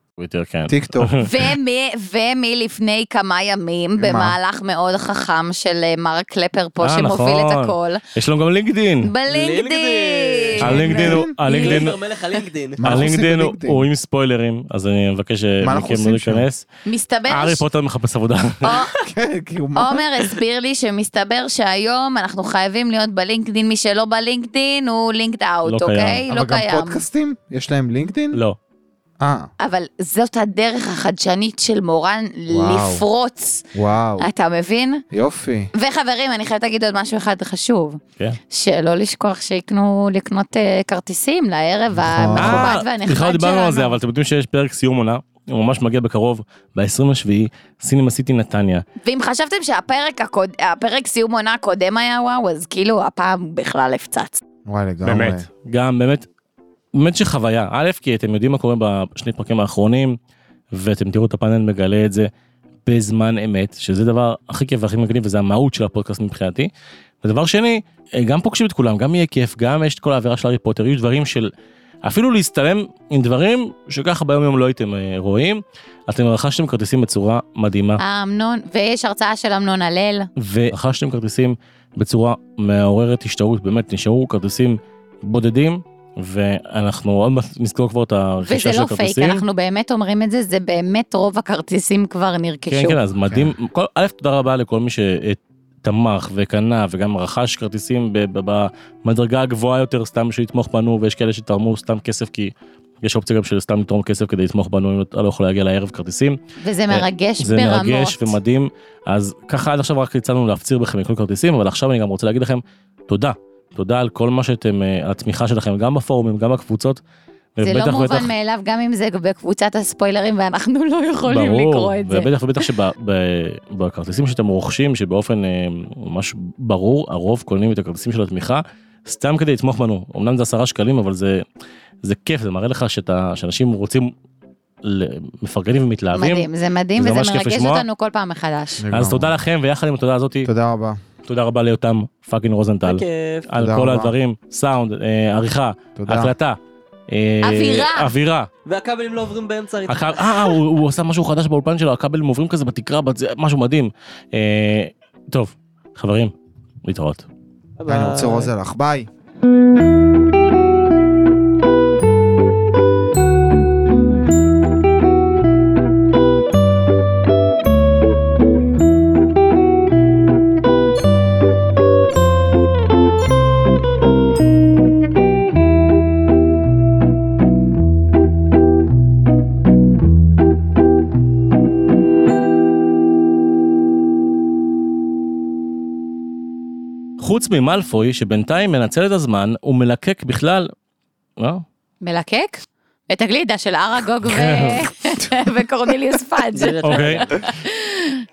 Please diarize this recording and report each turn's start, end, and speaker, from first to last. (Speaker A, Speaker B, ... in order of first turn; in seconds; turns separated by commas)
Speaker A: 0.2-1.3, Speaker B: 0.7-1.2, Speaker C: 1.2-8.0, Speaker B: 4.0-4.4, Speaker A: 6.8-9.1, Speaker C: 9.0-11.9, Speaker D: 9.3-10.6, Speaker A: 10.6-12.0, Speaker B: 10.6-11.3, Speaker D: 11.4-12.8, Speaker B: 12.8-13.8, Speaker A: 12.8-16.6, Speaker B: 15.6-16.4, Speaker C: 16.9-17.6, Speaker A: 17.3-18.7, Speaker C: 18.6-19.0, Speaker B: 19.0-20.0, Speaker C: 19.8-27.0, Speaker A: 25.6-26.2, Speaker B: 26.3-28.4, Speaker A: 28.3-28.6, Speaker B: 29.2-29.5, Speaker C: 29.6-33.7, Speaker B: 32.5-33.0, Speaker B: 33.7-34.3, Speaker C: 34.2-35.0, Speaker B: 35.1-35.7, Speaker C: 35.7-44.0, Speaker B: 41.9-42.7, Speaker A: 42.4-48.8, Speaker C: 49.0-54.4, Speaker B: 54.6-55.5, Speaker A: 55.0-56.3, Speaker A: 56.9-60.2, Speaker A: 60.7-62.3, Speaker A: 62.8-66.7, Speaker A: 67.2-71.5, Speaker A: 72.0-78.0, Speaker C: 78.0-80.3, Speaker A: 80.4-89.4, Speaker C: 88.4-93.0, Speaker A: 92.7-117.0, Speaker B: 93.3-93.5, Speaker C: 106.6-108.4, Speaker A: 117.6-118.3, Speaker C: 117.6-122.7, Speaker A: 121.2-131.4, Speaker A: 132.0-134.1, Speaker A: 134.8-137.8, Speaker C: 136.1-138.8, Speaker B: 138.8-139.4, Speaker A: 138.9-140.5, Speaker B: 140.4-141.0, Speaker A: 141.2-146.6, Speaker D: 142.8-143.5, Speaker B: 143.5-144.1, Speaker B: 145.9-146.3, Speaker A: 147.1-148.5, Speaker C: 147.4-148.1, Speaker D: 148.6-150.5, Speaker A: 149.9-156.3, Speaker A: 156.8-157.3, Speaker D: 157.8-158.5, Speaker B: 157.9-159.1, Speaker A: 187.2-190.7, Speaker A: 191.4-191.6, Speaker C: 192.0-198.2, Speaker A: 194.2-194.9, Speaker B: 195.2-195.5, Speaker D: 196.5-197.5, Speaker A: 196.8-197.2